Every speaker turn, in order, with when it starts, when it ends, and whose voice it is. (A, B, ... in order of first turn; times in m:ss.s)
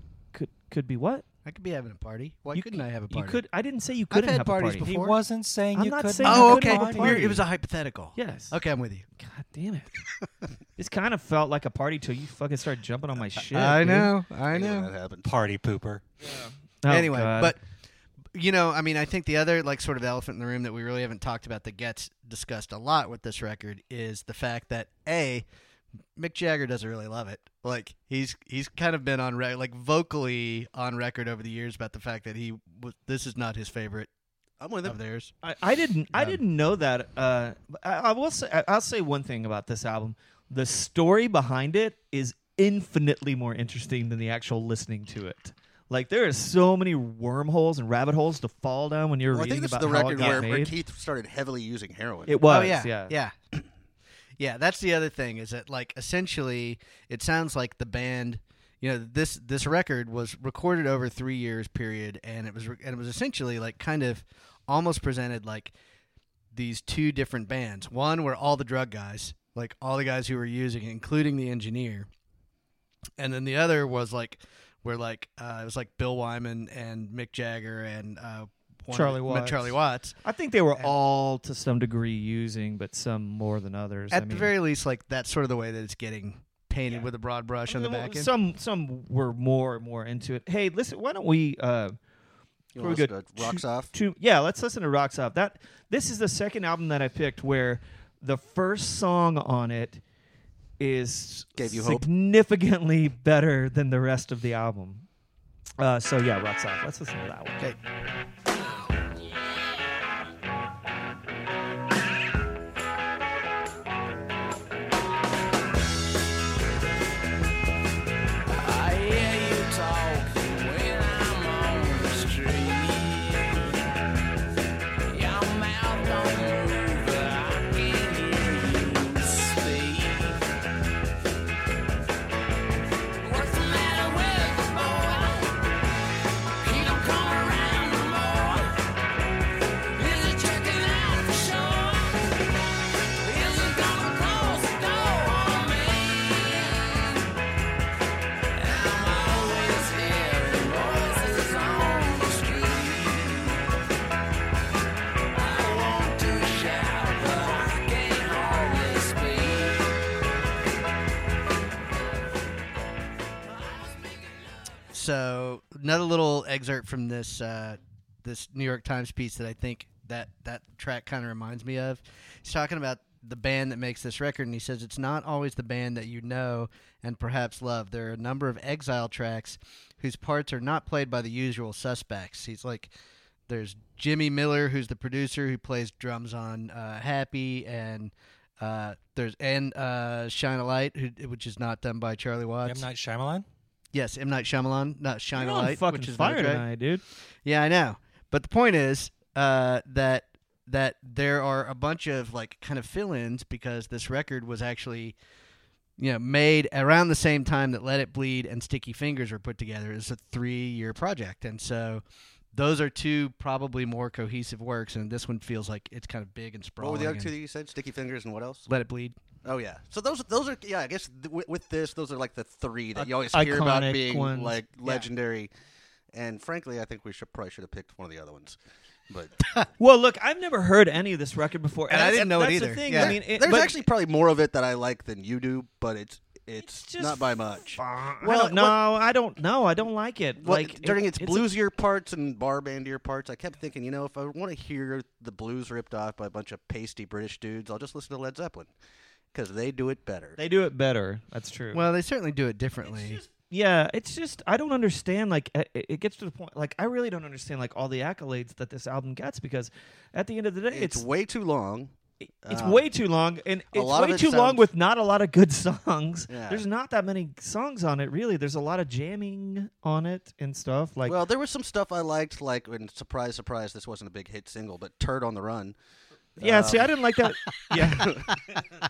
0:00.3-0:01.2 A
0:01.4-0:03.4 B
0:02.5-0:04.9 A
0:04.1-0:05.2 B
0:04.8-0:07.3 C
0:05.8-0:07.4 A
0:06.2-0:09.1 B
0:08.2-0:08.6 A
0:09.2-0:10.0 A
0:10.8-0:14.1 A
0:13.4-0:14.9 B
0:14.5-0:15.3 D
0:15.2-0:16.0 C
0:16.2-0:17.5 A
0:16.9-0:17.6 B
0:18.3-0:25.5 B
0:26.2-0:34.1 B
0:34.6-0:35.0 D
0:34.8-0:35.3 B
0:35.4-0:50.7 A
0:36.1-0:36.4 B
0:49.3-0:52.4 D
0:50.2-0:50.5 B
0:52.3-0:53.2 A
0:52.4-0:53.6 B
0:54.4-1:05.7 B
1:06.5-1:12.1 B
1:13.2-1:20.2 B
1:18.9-1:24.5 A
1:24.1-1:28.3 B
1:27.7-1:32.0 A
1:32.8-1:33.9 D
1:32.8-1:40.0 A
1:40.8-1:45.1 A
1:41.6-1:42.1 D
1:45.8-1:47.7 A
1:58.6-2:03.8 E
2:05.1-2:10.4 E
2:13.2-2:15.6 E
2:16.6-2:18.8 E
2:20.0-2:22.2 E
2:23.2-2:27.2 E
2:28.6-2:33.6 E
2:35.4-2:39.8 E
2:44.9-3:02.9 B
3:03.5-3:12.9 B
3:12.6-3:13.5 C
3:13.9-3:16.7 B
3:15.3-3:17.0 A
3:17.4-3:25.2 B
3:26.0-3:32.0 B
3:32.5-3:37.3 B
3:36.8-3:38.7 D
3:38.7-3:39.2 B
3:39.4-3:45.5 D
3:43.0-3:44.6 A
3:46.1-3:48.6 D
3:49.8-3:53.8 A
3:51.9-3:53.2 B
3:52.9-3:58.8 D
3:56.6-4:01.5 A
4:00.4-4:08.7 D
4:09.3-4:10.4 D
4:10.4-4:11.8 A
4:11.7-4:13.2 B
4:13.5-4:21.0 A
4:20.7-4:21.9 D
4:22.4-4:22.8 D
4:22.5-4:31.2 A
4:23.7-4:24.7 D
4:26.3-4:26.6 D
4:31.1-4:35.8 D
4:36.4-4:36.9 D
4:36.4-4:38.3 A
4:37.8-4:38.2 D